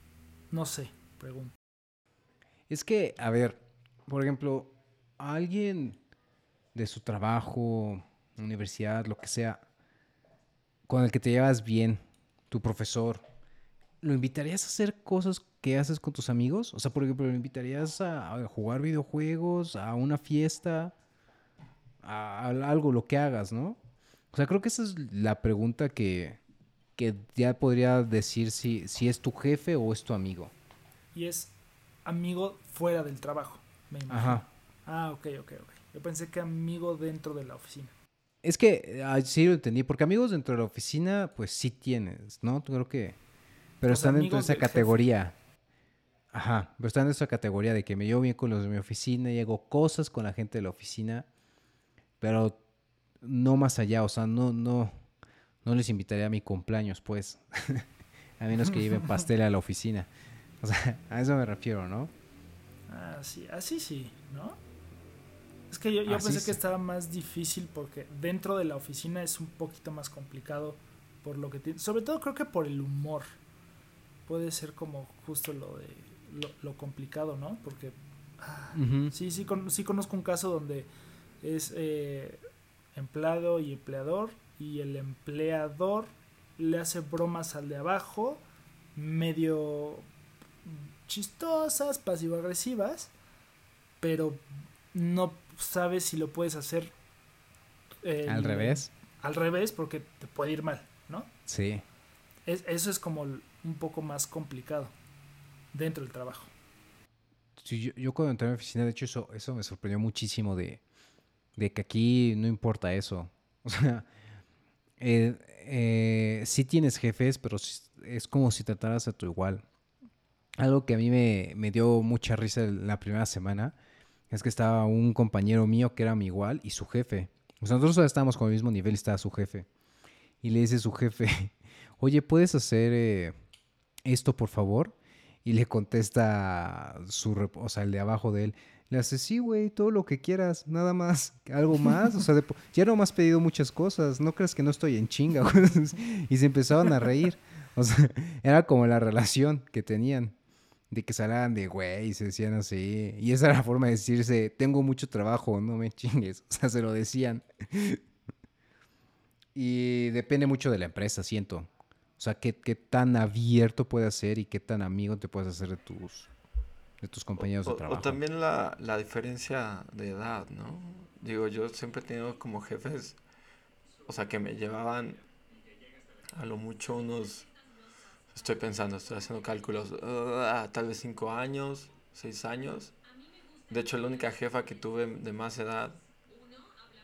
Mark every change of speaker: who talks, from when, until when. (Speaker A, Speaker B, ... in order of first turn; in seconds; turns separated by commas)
Speaker A: 0.5-1.5, Speaker B: 2.7-6.0, Speaker B: 6.7-9.6, Speaker B: 10.9-13.2, Speaker B: 14.0-20.9, Speaker B: 22.0-23.8, Speaker B: 24.3-26.4, Speaker B: 27.0-30.5, Speaker A: 31.1-31.5, Speaker A: 32.0-37.9, Speaker B: 34.1-34.5, Speaker B: 38.4-43.2, Speaker B: 43.8-45.4, Speaker A: 43.9-45.0, Speaker B: 46.3-51.3, Speaker B: 52.2-52.6, Speaker B: 53.2-54.9, Speaker B: 55.6-57.9, Speaker B: 58.4-60.1, Speaker B: 60.6-62.1, Speaker A: 62.9-64.6, Speaker A: 65.7-73.3, Speaker B: 66.1-66.6, Speaker A: 74.3-80.9, Speaker B: 78.8-79.1, Speaker A: 81.4-82.4, Speaker A: 83.0-88.4, Speaker A: 89.0-90.1, Speaker A: 90.6-93.1, Speaker A: 94.0-96.9, Speaker A: 98.0-101.3, Speaker B: 98.3-98.9, Speaker B: 101.5-101.8, Speaker A: 102.5-104.9, Speaker A: 105.7-106.5, Speaker B: 107.6-110.8, Speaker B: 111.6-114.1, Speaker B: 115.0-119.7, Speaker B: 120.6-123.8, Speaker B: 124.3-129.7, Speaker B: 130.4-133.3, Speaker B: 134.1-150.4, Speaker B: 150.9-158.0, Speaker B: 159.5-166.3, Speaker B: 167.0-168.2, Speaker C: 167.4-173.2, Speaker C: 174.1-175.2, Speaker C: 176.3-177.5, Speaker C: 178.3-182.9, Speaker C: 183.7-186.0